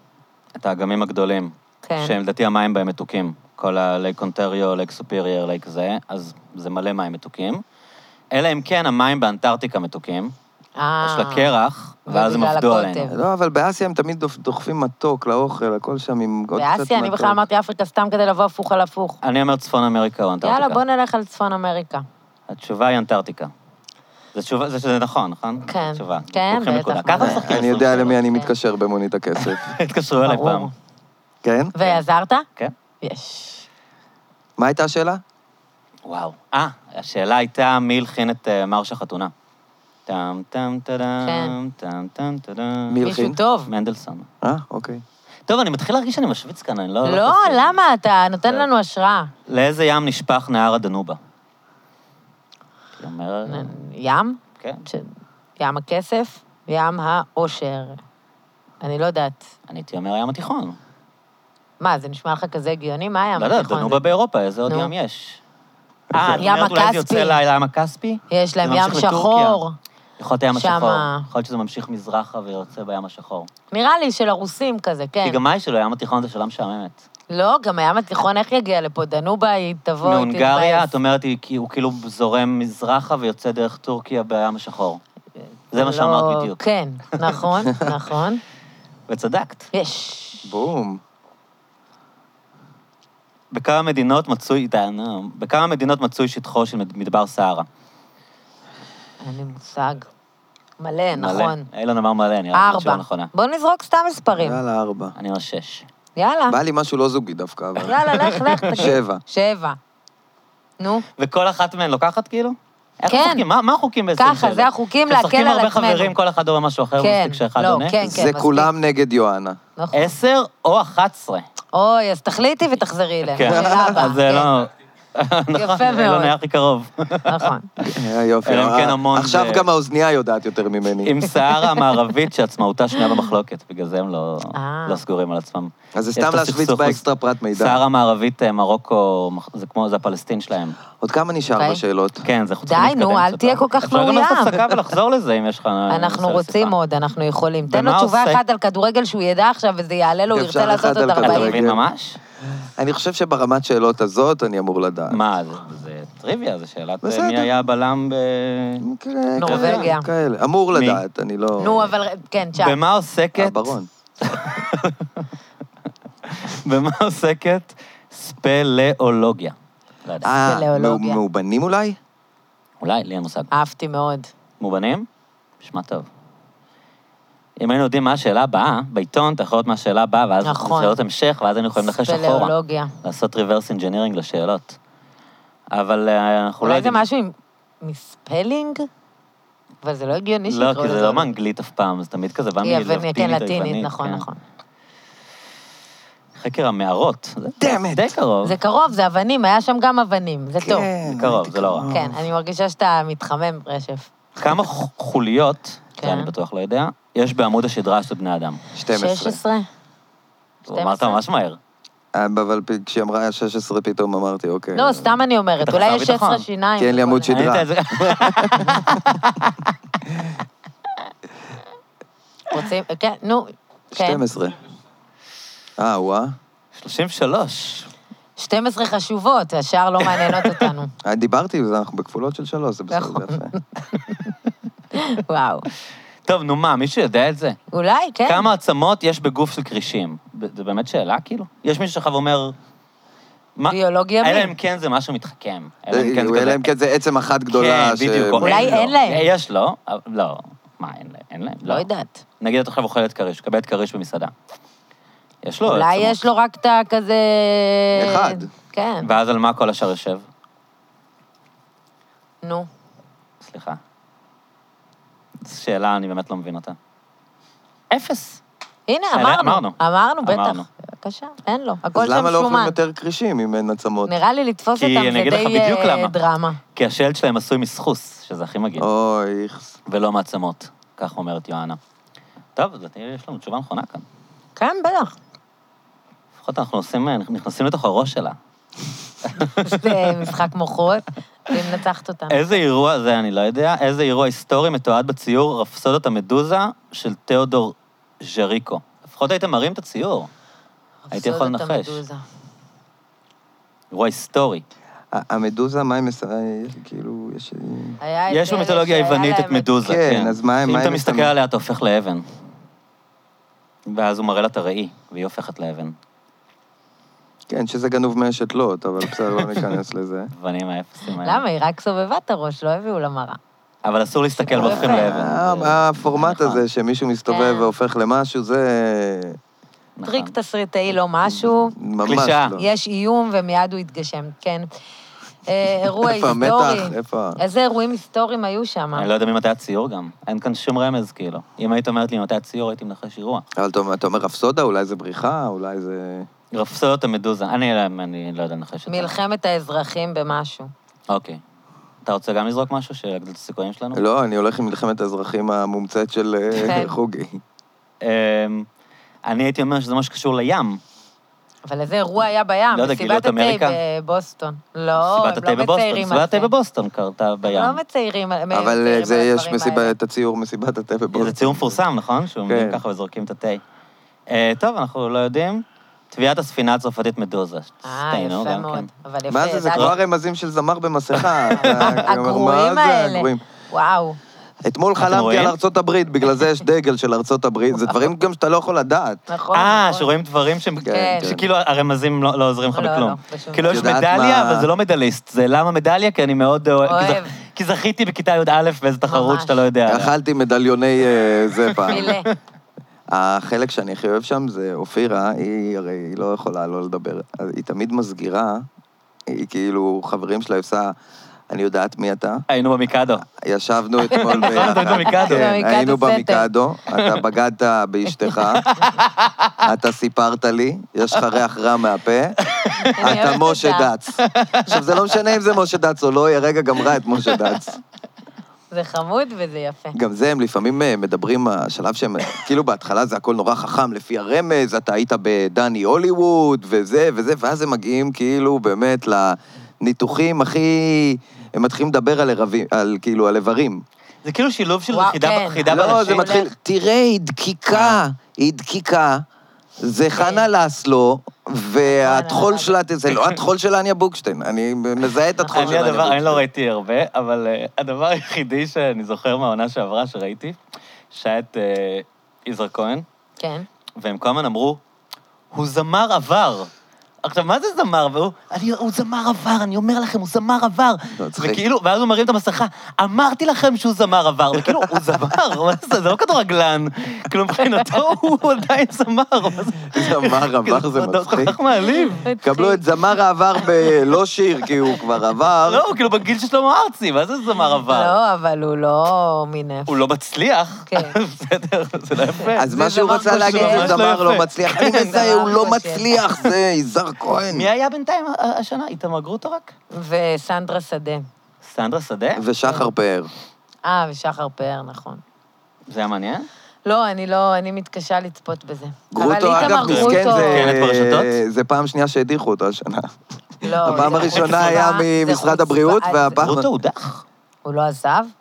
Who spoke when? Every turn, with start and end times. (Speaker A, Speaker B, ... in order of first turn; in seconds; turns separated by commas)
Speaker A: 0.6-7.6, Speaker B: 1.9-2.1, Speaker A: 8.3-10.3, Speaker B: 10.8-11.5, Speaker A: 11.0-13.1, Speaker B: 12.1-13.2, Speaker C: 13.1-17.4, Speaker B: 16.6-19.2, Speaker A: 19.2-20.8, Speaker B: 20.4-22.1, Speaker A: 22.5-23.5, Speaker A: 24.3-28.3, Speaker B: 25.7-27.4, Speaker C: 27.2-29.7, Speaker A: 29.4-30.7, Speaker B: 30.2-30.7, Speaker C: 31.4-31.8, Speaker B: 31.8-32.5, Speaker B: 33.0-33.6, Speaker C: 34.6-35.2, Speaker A: 36.0-39.3, Speaker A: 40.1-43.0, Speaker B: 41.2-41.5, Speaker C: 42.9-43.4, Speaker B: 43.0-43.7, Speaker A: 43.7-44.3, Speaker C: 44.4-45.0, Speaker A: 45.5-47.8, Speaker B: 47.0-49.3, Speaker A: 49.5-51.2, Speaker A: 53.0-53.8, Speaker B: 53.5-58.0, Speaker A: 54.6-54.9, Speaker B: 58.8-59.4, Speaker A: 59.7-60.8, Speaker B: 61.8-64.1, Speaker A: 63.4-65.4, Speaker B: 64.7-64.9, Speaker C: 66.1-66.4, Speaker A: 66.1-69.6, Speaker B: 66.3-67.4, Speaker B: 68.3-69.8, Speaker A: 70.2-73.5, Speaker B: 70.5-71.2, Speaker B: 73.7-75.4, Speaker A: 75.2-77.0, Speaker B: 77.3-80.9, Speaker A: 80.0-85.0, Speaker A: 85.7-86.6, Speaker B: 85.7-88.4, Speaker A: 87.2-87.4, Speaker A: 89.1-89.7, Speaker B: 89.7-90.5, Speaker C: 90.5-91.0, Speaker A: 93.5-97.7, Speaker B: 99.2-100.1, Speaker B: 100.8-101.7, Speaker A: 101.2-103.3, Speaker B: 102.5-104.6, Speaker C: 104.4-105.2, Speaker A: 105.2-105.9, Speaker B: 106.2-106.6, Speaker C: 106.5-108.0, Speaker B: 107.8-109.8, Speaker A: 107.8-108.9, Speaker C: 108.8-109.2, Speaker B: 110.8-111.0, Speaker A: 111.2-118.0, Speaker B: 113.1-113.5, Speaker B: 114.2-116.1, Speaker B: 117.0-118.7, Speaker C: 118.0-119.6, Speaker B: 119.8-120.1, Speaker A: 119.9-121.5, Speaker B: 121.7-124.5, Speaker A: 123.3-129.7, Speaker C: 123.4-124.0, Speaker B: 125.5-126.3, Speaker B: 127.3-127.7, Speaker C: 127.8-131.2, Speaker A: 131.0-140.8, Speaker B: 131.4-131.9, Speaker B: 134.6-135.0, Speaker C: 135.9-137.8, Speaker C: 141.0-142.2, Speaker B: 141.5-141.8, Speaker A: 142.2-146.8, Speaker B: 142.6-144.8, Speaker B: 145.9-151.6, Speaker A: 147.7-148.4, Speaker C: 150.3-151.8, Speaker A: 151.2-152.2, Speaker C: 152.8-155.2, Speaker A: 155.1-158.9, Speaker C: 157.0-157.5, Speaker C: 158.8-161.9, Speaker B: 159.4-160.1, Speaker A: 159.4-159.9, Speaker A: 160.7-161.0, Speaker B: 161.6-162.8, Speaker A: 162.6-165.3, Speaker C: 163.3-163.9, Speaker A: 166.2-170.3, Speaker C: 170.2-172.0, Speaker B: 170.3-171.2, Speaker A: 172.8-173.5, Speaker B: 173.5-174.3, Speaker A: 174.6-175.1, Speaker A: 175.6-176.1, Speaker A: 177.6-184.8, Speaker B: 180.4-181.0, Speaker B: 181.8-182.9, Speaker A: 185.7-187.0, Speaker B: 186.6-188.9, Speaker B: 189.8-191.3, Speaker A: 190.5-194.2, Speaker B: 192.6-194.4, Speaker A: 196.4-198.6, Speaker C: 197.6-198.1, Speaker B: 198.4-200.9, Speaker C: 200.6-202.2, Speaker A: 201.1-201.9, Speaker B: 201.9-204.1, Speaker A: 204.4-208.6, Speaker B: 206.0-206.3, Speaker C: 208.8-209.4, Speaker B: 208.9-209.7, Speaker A: 210.7-211.6, Speaker B: 210.7-211.2, Speaker C: 212.1-215.2, Speaker B: 214.8-217.4, Speaker A: 215.6-216.4, Speaker C: 216.8-218.8, Speaker A: 217.3-219.7, Speaker B: 218.6-218.8, Speaker B: 222.5-224.2, Speaker C: 223.9-224.6, Speaker C: 225.8-226.3, Speaker A: 226.8-227.9, Speaker B: 228.4-230.9, Speaker A: 230.1-230.7, Speaker C: 231.0-233.5, Speaker B: 232.9-234.3, Speaker B: 234.9-235.7, Speaker A: 236.2-237.6, Speaker B: 237.7-238.5, Speaker A: 238.3-242.5, Speaker A: 243.6-246.7, Speaker B: 243.7-244.5, Speaker C: 245.9-248.8, Speaker A: 247.5-251.9, Speaker B: 248.4-249.3, Speaker B: 251.6-252.2, Speaker A: 252.4-254.3, Speaker A: 255.4-256.2, Speaker B: 255.7-259.1, Speaker C: 258.0-258.5, Speaker A: 259.0-260.2, Speaker B: 262.4-262.7, Speaker A: 263.4-263.8, Speaker A: 265.4-266.8, Speaker A: 267.9-268.4, Speaker B: 268.9-272.8, Speaker A: 269.1-270.7, Speaker C: 272.0-274.2, Speaker B: 274.1-276.6, Speaker A: 274.8-276.1, Speaker A: 276.8-278.9, Speaker C: 278.8-279.8, Speaker A: 279.9-281.8, Speaker A: 282.6-284.1, Speaker B: 284.6-285.1, Speaker A: 286.4-288.4, Speaker A: 289.2-290.3, Speaker B: 289.6-292.6, Speaker A: 292.3-300.3, Speaker B: 301.1-302.2, Speaker A: 301.1-302.0, Speaker A: 303.9-304.6, Speaker C: 305.1-308.0, Speaker B: 308.0-309.7, Speaker A: 308.3-312.2, Speaker C: 309.8-311.3, Speaker A: 313.9-315.9, Speaker C: 317.5-320.3, Speaker A: 319.1-319.6, Speaker A: 320.3-321.4, Speaker B: 321.2-323.4, Speaker A: 323.8-326.6, Speaker B: 324.4-325.2, Speaker C: 324.6-329.4, Speaker B: 327.3-327.7, Speaker A: 330.0-330.3, Speaker B: 330.0-331.8, Speaker C: 331.3-332.6, Speaker A: 332.1-332.6, Speaker B: 332.6-334.7, Speaker B: 335.5-339.1, Speaker C: 336.0-337.4, Speaker A: 338.9-343.4, Speaker C: 343.6-346.3, Speaker A: 346.5-349.1, Speaker B: 348.9-350.7, Speaker A: 351.1-351.4, Speaker A: 352.0-354.0, Speaker C: 353.9-357.4, Speaker B: 356.6-356.9, Speaker A: 358.0-358.7, Speaker A: 359.2-360.8, Speaker B: 361.6-366.5, Speaker A: 362.7-363.8, Speaker A: 365.0-367.8, Speaker B: 367.4-369.9, Speaker C: 368.5-371.8, Speaker A: 371.1-373.6, Speaker C: 372.5-372.8, Speaker A: 374.3-378.9, Speaker B: 377.9-379.9, Speaker C: 379.3-383.4, Speaker A: 381.1-382.0, Speaker B: 381.5-384.2, Speaker C: 384.6-389.3, Speaker A: 385.0-385.6, Speaker B: 389.3-390.1, Speaker A: 389.5-400.1, Speaker C: 390.9-391.4, Speaker B: 390.9-391.3, Speaker B: 392.7-393.9, Speaker C: 393.7-394.7, Speaker B: 396.9-397.3, Speaker B: 399.1-399.6, Speaker C: 399.9-402.1, Speaker A: 401.6-402.3, Speaker B: 401.9-402.3, Speaker C: 403.1-408.7, Speaker C: 409.3-410.9, Speaker C: 411.5-412.4, Speaker A: 412.5-413.3, Speaker C: 413.3-418.7, Speaker B: 414.1-416.5, Speaker A: 414.1-415.5, Speaker A: 418.4-419.7, Speaker C: 419.6-422.4, Speaker A: 422.4-423.3, Speaker B: 422.8-423.9, Speaker C: 423.0-427.8, Speaker A: 424.2-425.1, Speaker A: 426.9-427.6, Speaker B: 428.7-430.0, Speaker C: 429.9-443.8, Speaker A: 444.2-446.3, Speaker B: 444.9-446.5, Speaker C: 445.7-449.2, Speaker A: 447.7-448.0, Speaker C: 449.8-456.4, Speaker B: 450.1-450.4, Speaker B: 451.9-452.8, Speaker A: 453.1-453.4, Speaker B: 455.4-455.9, Speaker A: 455.5-460.6, Speaker A: 461.1-463.1, Speaker B: 463.4-463.7, Speaker A: 464.0-464.8, Speaker A: 465.5-466.7, Speaker A: 467.2-482.2, Speaker C: 471.1-471.6, Speaker C: 474.7-475.2, Speaker C: 479.9-481.6, Speaker B: 482.0-482.8, Speaker C: 482.4-485.8, Speaker A: 485.6-488.2, Speaker B: 487.9-490.0, Speaker A: 489.9-495.3, Speaker B: 490.9-491.1, Speaker B: 492.4-494.0, Speaker C: 492.6-497.7, Speaker B: 494.8-496.1, Speaker A: 497.5-499.7, Speaker B: 499.9-501.3, Speaker A: 501.6-502.4, Speaker C: 502.4-503.3, Speaker B: 502.6-502.9, Speaker B: 503.9-505.2, Speaker A: 505.9-506.5, Speaker B: 506.9-510.8, Speaker C: 509.1-513.1, Speaker A: 509.5-511.4, Speaker C: 513.6-516.7, Speaker B: 513.6-516.5, Speaker A: 513.9-514.8, Speaker A: 516.4-517.2, Speaker B: 517.6-518.3